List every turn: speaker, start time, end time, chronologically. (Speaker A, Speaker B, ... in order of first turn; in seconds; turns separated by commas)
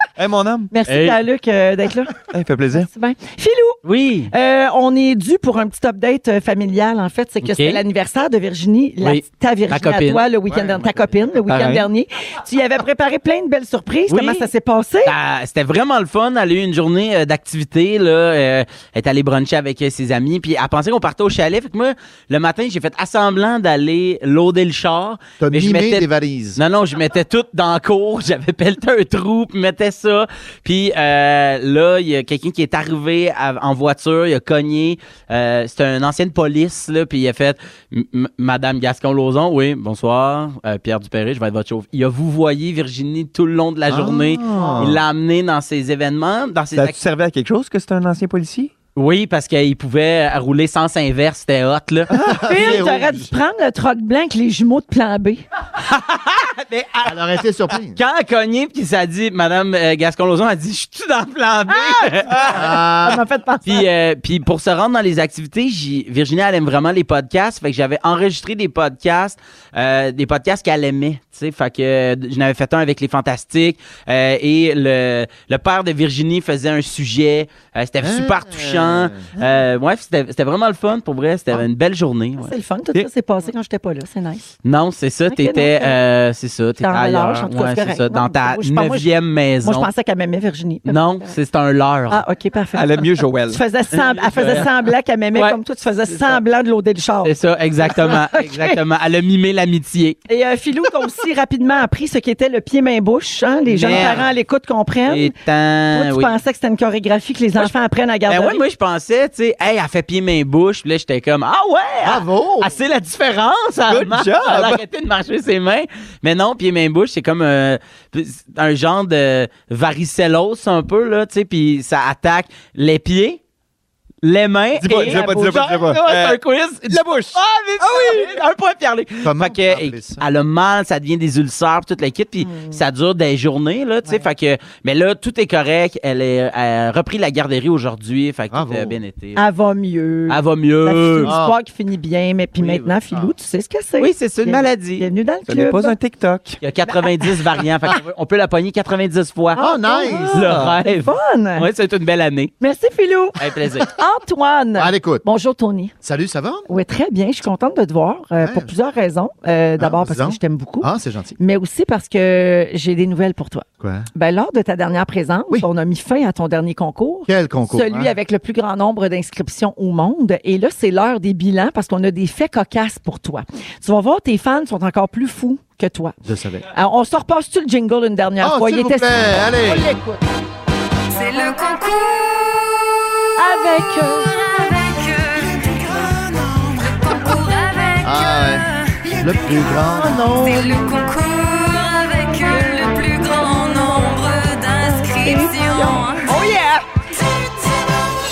Speaker A: 0.2-0.7, Speaker B: 0.7-15.2, Speaker C: 0.9-1.2, Speaker A: 2.3-2.9, Speaker C: 3.8-4.3, Speaker C: 7.4-7.8, Speaker C: 9.0-10.3, Speaker A: 10.5-11.9, Speaker C: 14.1-14.5, Speaker C: 15.1-47.0, Speaker D: 25.4-26.6, Speaker D: 43.9-45.0, Speaker A: 46.8-48.7, Speaker C: 49.0-52.1, Speaker A: 52.1-52.8, Speaker D: 52.1-53.3, Speaker B: 52.5-55.4, Speaker C: 55.8-57.2, Speaker D: 57.0-58.0, Speaker C: 57.9-62.6, Speaker B: 61.7-63.9, Speaker D: 62.5-63.2, Speaker C: 63.7-82.5, Speaker D: 78.0-79.3, Speaker B: 82.4-84.4, Speaker C: 84.6-89.9, Speaker B: 85.3-86.0, Speaker B: 86.8-89.1, Speaker B: 89.6-91.3, Speaker C: 90.9-92.2, Speaker B: 92.1-98.8, Speaker A: 92.8-93.6, Speaker C: 93.9-94.7, Speaker C: 96.1-96.4, Speaker C: 97.2-100.2, Speaker B: 100.3-105.3, Speaker C: 103.7-104.2, Speaker A: 103.8-104.3, Speaker C: 105.1-106.3, Speaker B: 105.9-108.6, Speaker C: 108.3-123.4, Speaker D: 112.0-112.7, Speaker A: 113.9-114.8, Speaker C: 124.2-139.4, Speaker A: 124.8-128.4, Speaker B: 124.8-125.4, Speaker D: 129.2-130.2, Speaker B: 132.4-132.8, Speaker D: 138.5-139.0, Speaker B: 139.4-146.0, Speaker C: 140.3-141.3, Speaker D: 141.2-141.6, Speaker C: 142.6-142.9, Speaker C: 144.0-145.1, Speaker A: 145.5-146.6, Speaker C: 146.6-149.7, Speaker B: 146.9-147.1, Speaker B: 149.5-151.7, Speaker D: 149.6-150.4, Speaker C: 150.3-152.5, Speaker A: 150.3-150.8, Speaker B: 152.6-155.9, Speaker C: 153.4-153.9, Speaker D: 154.8-155.2, Speaker D: 156.0-156.7, Speaker B: 156.7-176.1, Speaker D: 158.4-158.7, Speaker D: 159.8-161.4, Speaker D: 163.8-164.1, Speaker D: 167.3-168.1, Speaker D: 176.2-176.7, Speaker B: 176.7-180.2, Speaker D: 178.4-179.9, Speaker E: 181.1-182.8, Speaker B: 183.4-184.3, Speaker E: 184.0-186.0, Speaker E: 186.9-196.6, Speaker D: 188.0-190.5, Speaker B: 190.0-190.7, Speaker B: 194.8-196.8, Speaker E: 197.3-197.8